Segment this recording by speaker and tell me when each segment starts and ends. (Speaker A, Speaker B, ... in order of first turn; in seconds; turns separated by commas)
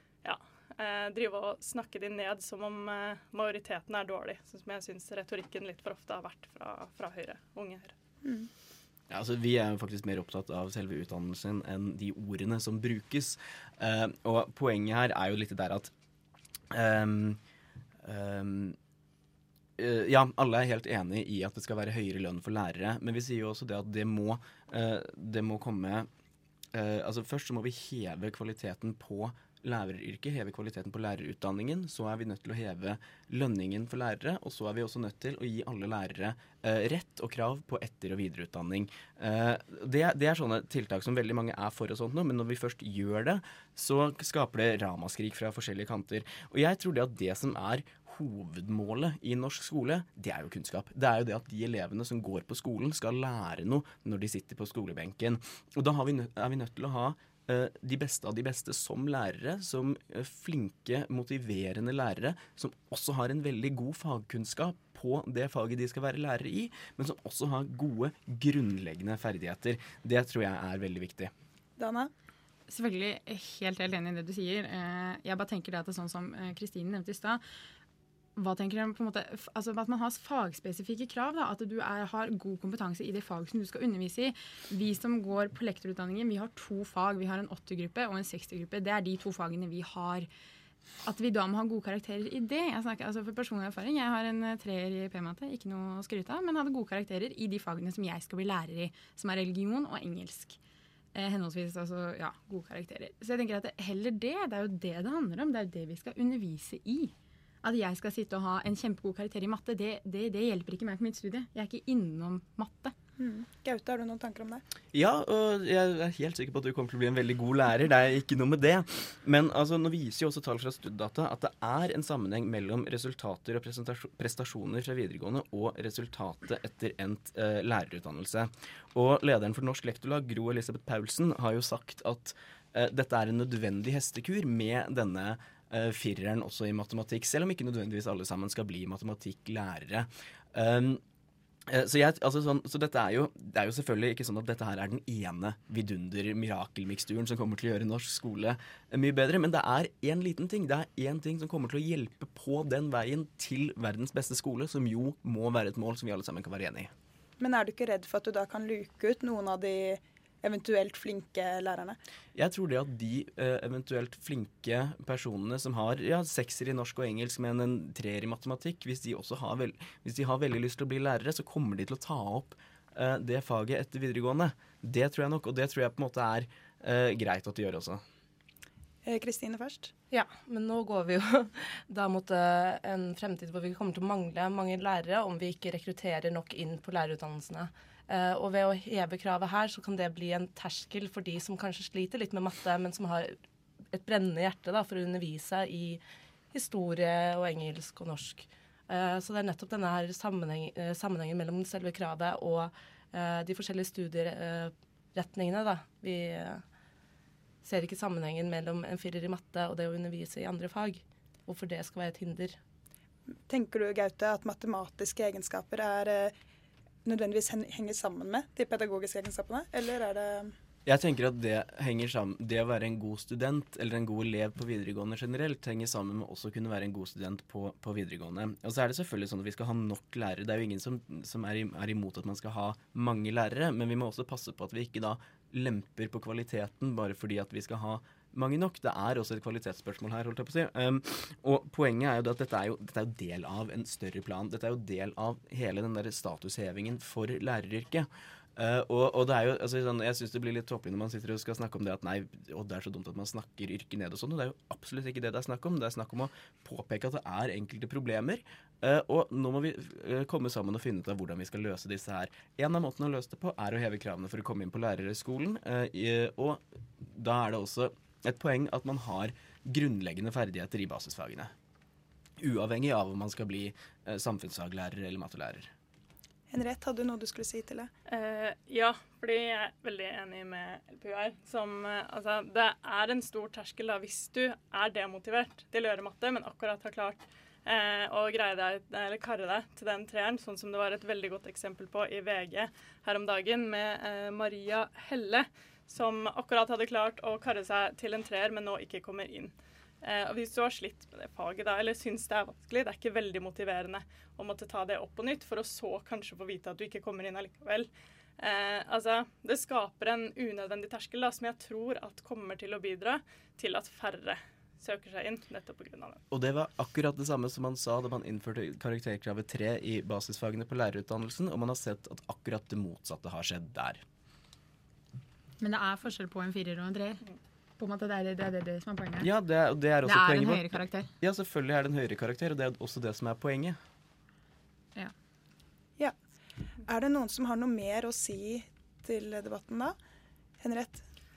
Speaker A: 0.2-7.9, Speaker B: 8.2-8.5, Speaker C: 9.1-15.9, Speaker C: 16.7-17.4, Speaker C: 18.0-18.8, Speaker C: 19.8-26.1, Speaker C: 26.7-71.3, Speaker B: 71.8-72.1, Speaker D: 72.7-77.4, Speaker D: 78.3-90.3, Speaker D: 91.0-100.6, Speaker D: 101.1-112.9, Speaker B: 113.2-114.6, Speaker C: 114.9-141.0, Speaker C: 141.7-156.9, Speaker B: 157.4-162.0, Speaker C: 162.3-178.0, Speaker B: 179.0-179.9, Speaker E: 180.1-193.4, Speaker E: 193.9-196.0, Speaker E: 196.5-206.6, Speaker E: 207.6-212.6, Speaker B: 213.5-216.3, Speaker B: 217.0-220.5, Speaker C: 220.8-271.5, Speaker C: 272.4-275.7, Speaker B: 276.5-277.9, Speaker A: 278.1-316.2, Speaker C: 316.3-324.0, Speaker D: 325.6-327.2, Speaker D: 327.8-329.3, Speaker C: 329.2-333.8, Speaker D: 330.0-331.1, Speaker B: 336.8-339.9, Speaker B: 340.6-341.0